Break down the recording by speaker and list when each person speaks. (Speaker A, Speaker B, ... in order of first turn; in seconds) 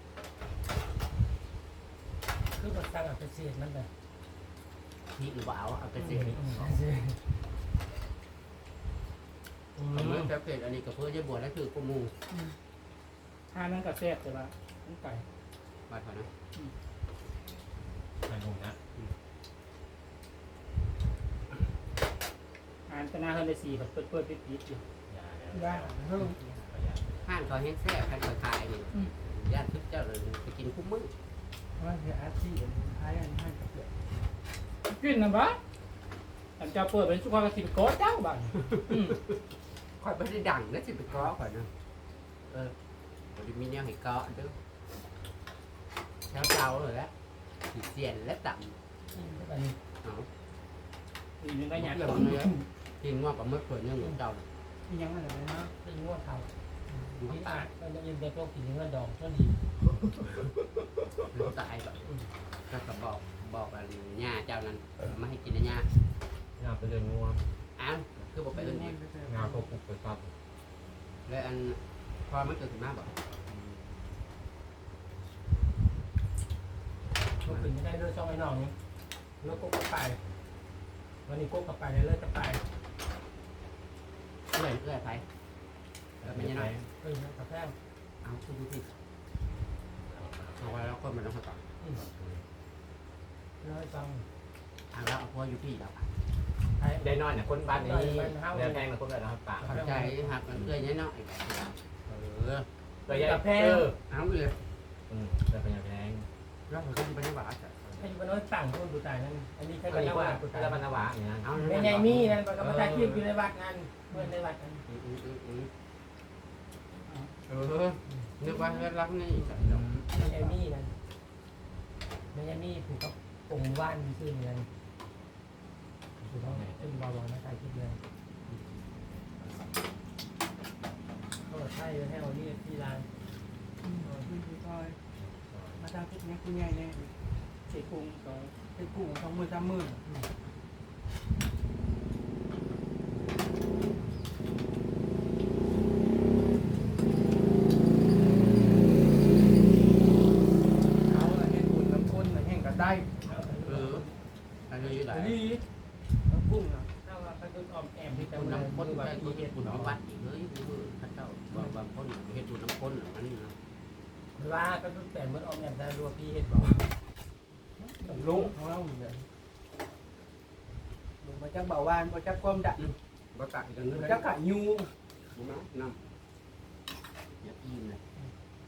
Speaker A: 2.5-3.9, 6.3-7.2, 9.8-10.3, 49.1-49.8, 55.8-56.5, 57.2-59.6, 77.4-78.7, 79.4-80.2, 81.2-82.6, 87.0-87.7, 93.6-94.2, 96.8-97.0, 97.7-98.9, 99.6-100.3, 103.0-103.9, 107.9-110.8, 111.5-114.8, 120.1-120.9, 122.3-124.7, 126.2-128.0, 131.4-133.1, 153.2-154.2, 155.1-155.6, 157.0-160.0, 164.3-166.9
Speaker B: 5.1-6.4, 9.9-12.1, 15.9-16.3, 27.2-31.1, 40.0-41.7, 42.5-42.7, 43.3-44.5, 46.3-47.1, 47.7-48.7, 51.7-54.4, 57.2-57.7, 61.3-62.1, 62.7-65.9, 67.8-69.0, 71.2-73.8, 84.5-85.2, 86.2-86.7, 88.2-88.9, 90.5-91.6, 94.9-96.1, 99.6-102.7, 104.1-104.6, 106.7-108.0, 111.4-112.6, 114.9-115.7, 117.5-119.8, 153.6-154.1, 154.7-155.4, 158.1-163.5, 172.8-174.3, 175.3-176.0, 177.4-178.0
Speaker C: 6.1-6.8, 18.2-18.8, 25.1-26.1, 26.7-27.3, 66.6-67.4, 69.3-70.3, 86.2-86.9, 90.0-91.0, 91.9-92.4, 97.0-99.9, 103.1-104.0, 105.1-106.3, 109.9-113.2, 119.6-120.1, 126.2-127.1, 135.2-135.8
Speaker D: 13.5-15.2, 22.9-24.8, 34.9-35.6, 36.6-39.2, 51.4-52.6, 137.7-138.5
Speaker E: 25.5-26.6, 31.8-34.3, 54.9-55.7, 68.5-69.7, 133.8-135.0, 135.8-137.1, 138.7-140.0, 151.0-153.1, 156.3-156.9, 168.0-169.2, 171.2-172.8, 173.9-174.9